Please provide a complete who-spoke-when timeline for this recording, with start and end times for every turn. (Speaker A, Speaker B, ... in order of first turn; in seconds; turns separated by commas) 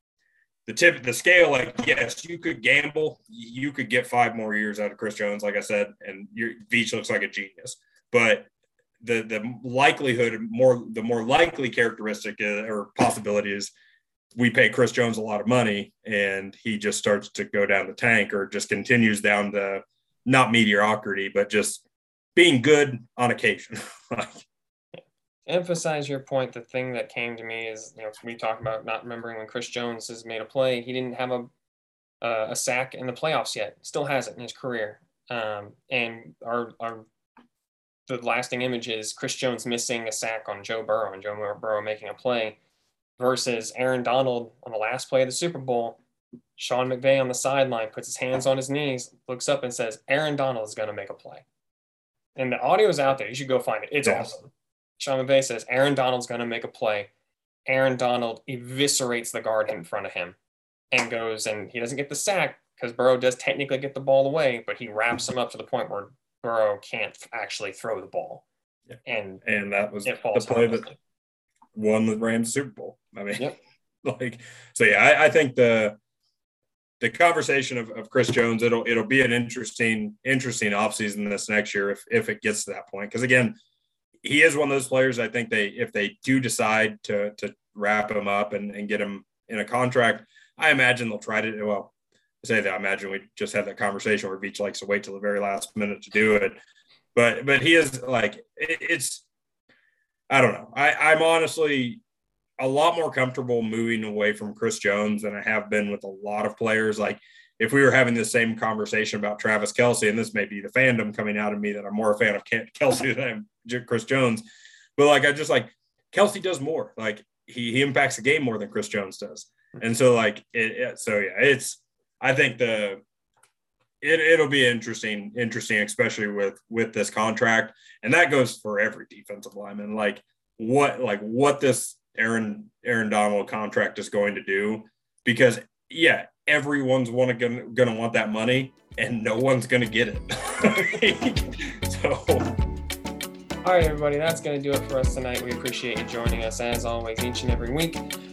Speaker A: 0.7-8.5, Speaker A: 9.0-13.7, Speaker A: 14.3-21.8, Speaker A: 22.3-24.4, Speaker B: 24.9-31.5, Speaker B: 32.2-37.0, Speaker B: 38.1-42.6, Speaker B: 43.2-46.0, Speaker B: 46.6-51.4, Speaker B: 52.4-57.1, Speaker A: 54.0-54.3, Speaker B: 57.7-60.4, Speaker B: 60.9-68.4, Speaker A: 68.9-70.9, Speaker B: 69.0-69.4, Speaker B: 70.0-71.0, Speaker A: 71.7-73.5, Speaker A: 74.0-76.0, Speaker A: 77.0-83.5, Speaker A: 84.2-96.5, Speaker A: 97.1-99.2, Speaker A: 100.3-102.0, Speaker A: 102.6-114.4, Speaker A: 115.0-123.0, Speaker A: 124.0-142.6, Speaker B: 143.6-148.0